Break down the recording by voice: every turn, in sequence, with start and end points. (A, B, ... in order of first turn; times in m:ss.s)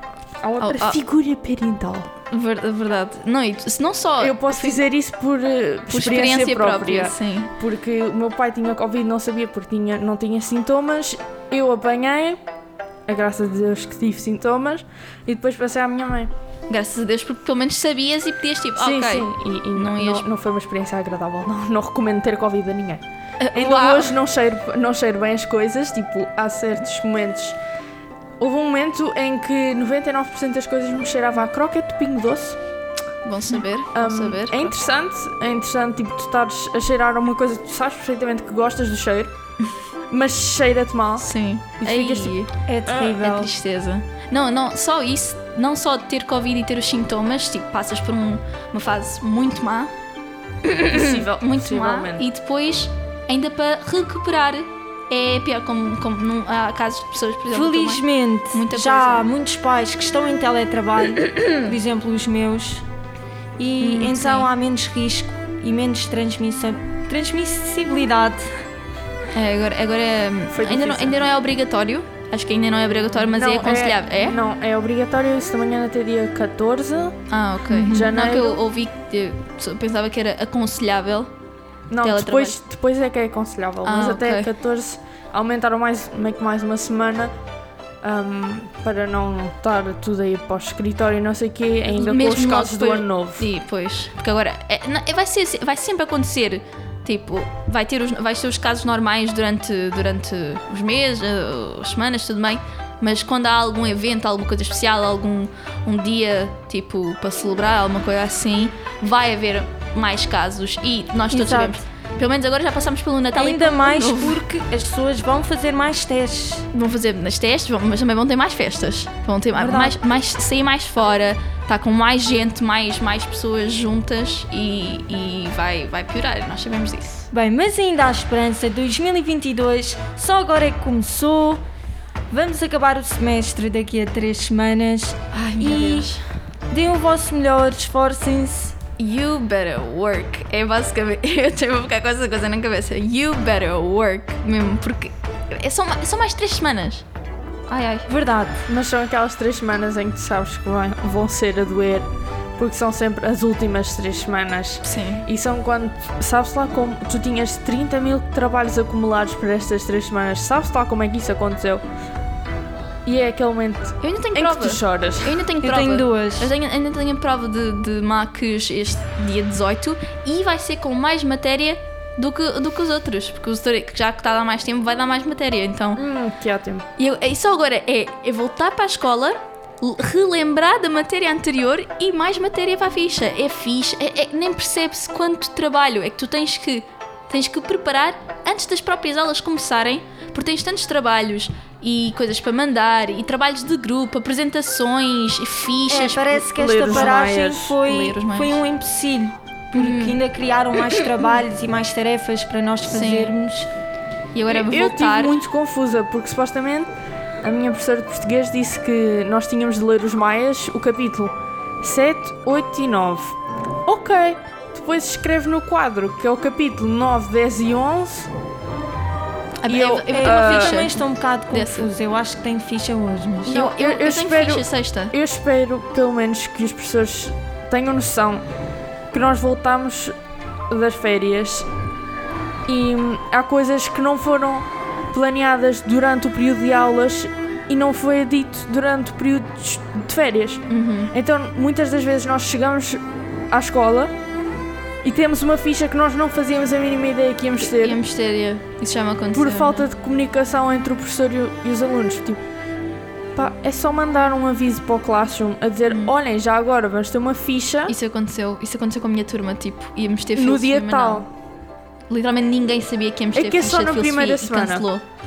0:00.4-0:02.1 A
0:00.6-0:01.0 B
0:02.3-0:04.8 B
0:04.2-0:12.4 A
0:05.9-0:07.5 B
0:13.1-0:16.3 A
0:16.7-0:20.3 B
0:18.8-0:23.0 A
0:23.4-0:24.2 B
0:23.5-0:27.6 A
0:28.4-0:32.6 A
0:33.2-0:34.8 B
0:34.0-0:39.3 A
0:40.1-0:43.5 A
0:41.2-0:42.5 B
0:42.7-0:43.5 C
0:43.2-0:49.9 B
0:50.7-0:59.3 B
0:50.9-0:52.3 A
0:57.5-1:02.8 C
1:01.2-1:01.8 B
1:03.6-1:08.5 C
1:03.8-1:04.5 B
1:09.3-1:14.4 B
1:10.5-1:11.2 A
1:13.3-1:17.2 A
1:17.3-1:21.3 B
1:17.7-1:18.1 C
1:17.8-1:18.6 A
1:21.9-1:27.3 A
1:22.0-1:22.6 B
1:23.8-1:24.5 B
1:28.0-1:33.5 A
1:31.9-1:54.4 B
1:51.3-1:51.8 C
1:53.3-1:56.7 C
1:56.7-2:07.3 B
1:59.6-2:00.0 C
2:07.3-2:11.6 C
2:12.3-2:16.1 C
2:15.3-2:16.2 B
2:16.7-2:18.8 C
2:19.0-2:27.0 B
2:27.7-2:28.1 B
2:28.1-2:28.6 C
2:28.7-2:32.1 A
2:32.6-2:41.8 A
2:34.8-2:35.2 B
2:43.0-2:45.5 A
2:44.0-2:56.0 B
2:45.6-2:46.5 C
2:56.0-2:56.8 A
2:57.0-3:17.3 B
3:15.9-3:23.7 C
3:16.4-3:17.8 A
3:17.8-3:18.6 B
3:19.7-3:20.2 B
3:22.9-3:23.4 B
3:24.4-3:25.4 B
3:24.5-3:26.9 A
3:27.4-3:38.3 A
3:39.6-3:41.9 B
3:39.7-3:40.9 A
3:40.1-3:43.6 C
3:43.4-3:45.1 B
3:43.5-3:48.4 A
3:49.1-3:50.2 A
3:50.7-3:51.7 A
3:52.7-4:04.1 A
4:00.7-4:01.1 B
4:05.0-4:08.0 A
4:07.6-4:09.9 B
4:09.3-4:12.4 A
4:13.4-4:18.0 A
4:15.9-4:16.2 B
4:17.9-4:21.3 B
4:20.4-4:21.3 A
4:22.1-4:25.0 B
4:23.4-4:24.9 A